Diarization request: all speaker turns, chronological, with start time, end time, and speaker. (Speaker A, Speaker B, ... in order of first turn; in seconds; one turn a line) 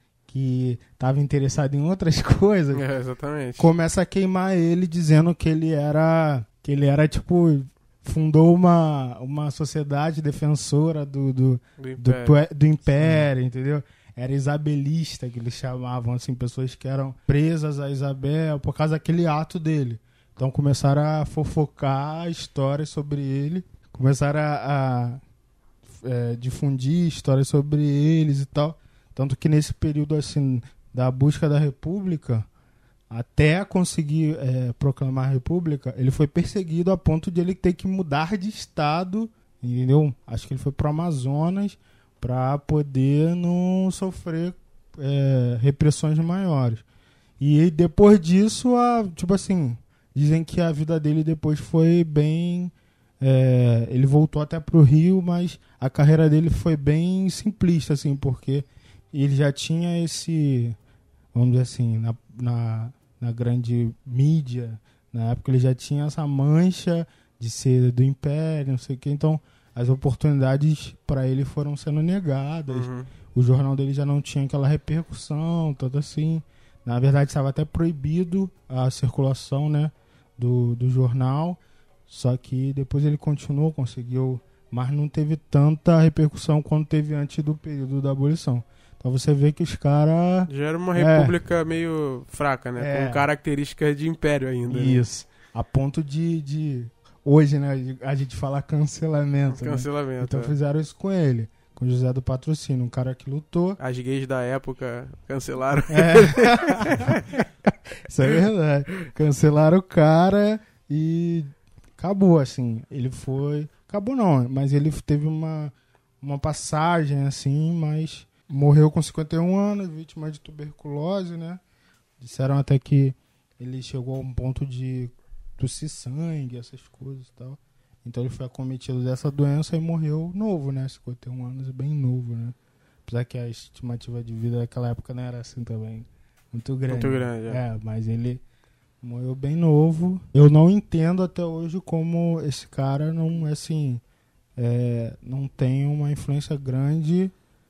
Speaker A: 0.3-2.8
Speaker B: 2.7-3.7
Speaker A: 3.6-25.2
Speaker B: 11.8-12.4
Speaker A: 25.9-32.5
Speaker A: 33.1-46.9
Speaker A: 47.4-60.8
Speaker A: 61.3-91.3
Speaker B: 72.7-73.1
Speaker B: 90.5-95.1
Speaker A: 92.8-93.3
Speaker A: 94.7-103.8
Speaker B: 99.5-100.5
Speaker B: 103.8-107.3
Speaker A: 105.9-121.6
Speaker A: 122.2-138.4
Speaker B: 136.9-137.6
Speaker A: 139.0-144.0
Speaker A: 144.6-147.3